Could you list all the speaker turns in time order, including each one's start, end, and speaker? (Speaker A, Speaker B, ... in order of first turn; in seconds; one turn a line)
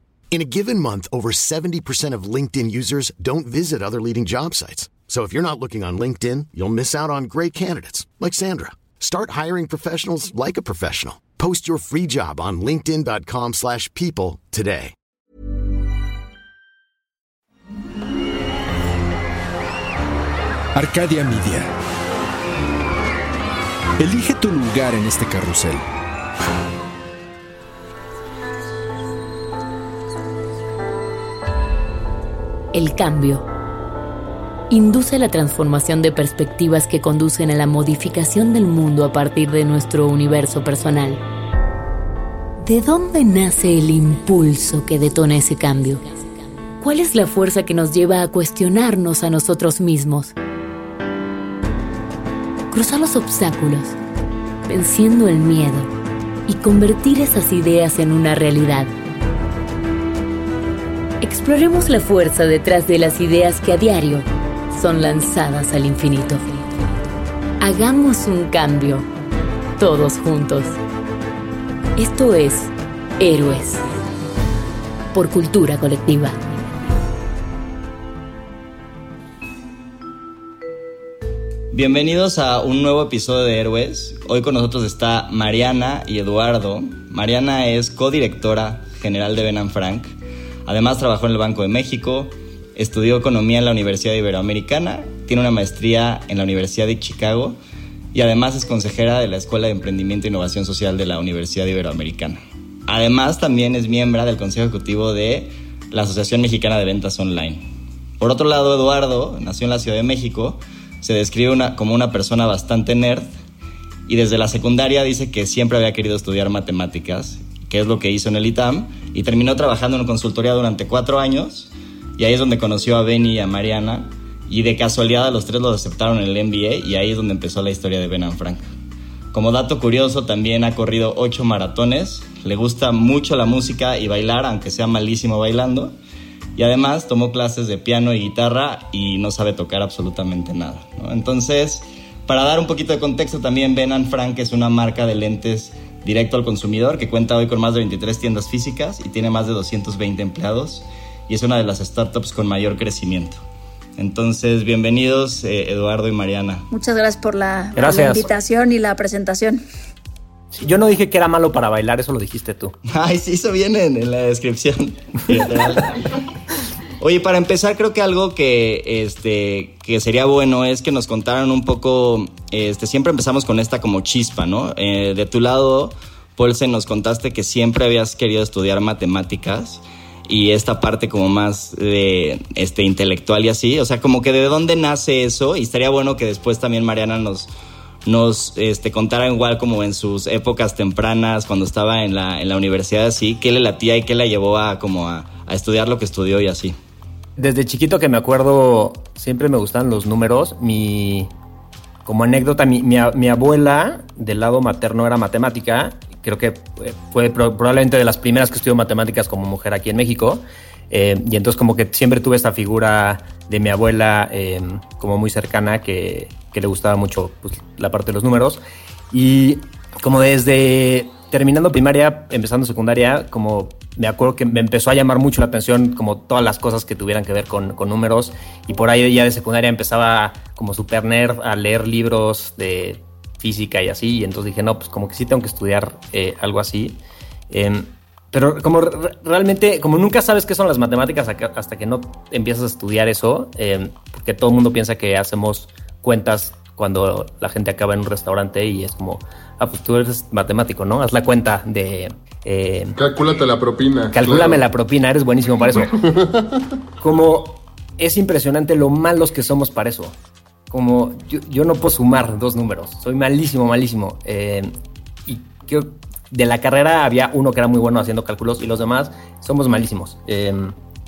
Speaker A: 0.3-14.9
Speaker B: 20.8-21.7
Speaker B: 24.0-25.8
Speaker C: 32.7-33.5
Speaker C: 34.7-41.2
Speaker C: 42.6-46.1
Speaker C: 46.8-50.3
Speaker C: 52.7-54.0
Speaker C: 54.7-55.9
Speaker C: 56.5-58.9
Speaker C: 61.2-66.7
Speaker C: 67.6-69.1
Speaker C: 69.8-70.8
Speaker C: 72.0-73.8
Speaker C: 75.1-76.4
Speaker D: 81.7-90.1
Speaker D: 90.7-97.6
Speaker D: 98.1-107.7
Speaker D: 108.2-113.3
Speaker D: 114.1-128.7
Speaker D: 129.3-136.0
Speaker D: 136.6-153.4
Speaker D: 154.0-156.7
Speaker E: 156.7-159.6
Speaker F: 157.8-158.2
Speaker F: 160.5-162.8
Speaker D: 162.9-166.1
Speaker D: 167.0-187.5
Speaker D: 188.1-196.8
Speaker F: 197.4-201.3
Speaker F: 202.1-237.0
Speaker F: 237.5-253.0
Speaker G: 253.0-254.6
Speaker F: 254.1-256.1
Speaker G: 255.9-256.7
Speaker F: 257.0-260.1
Speaker F: 260.7-264.7
Speaker F: 265.3-270.8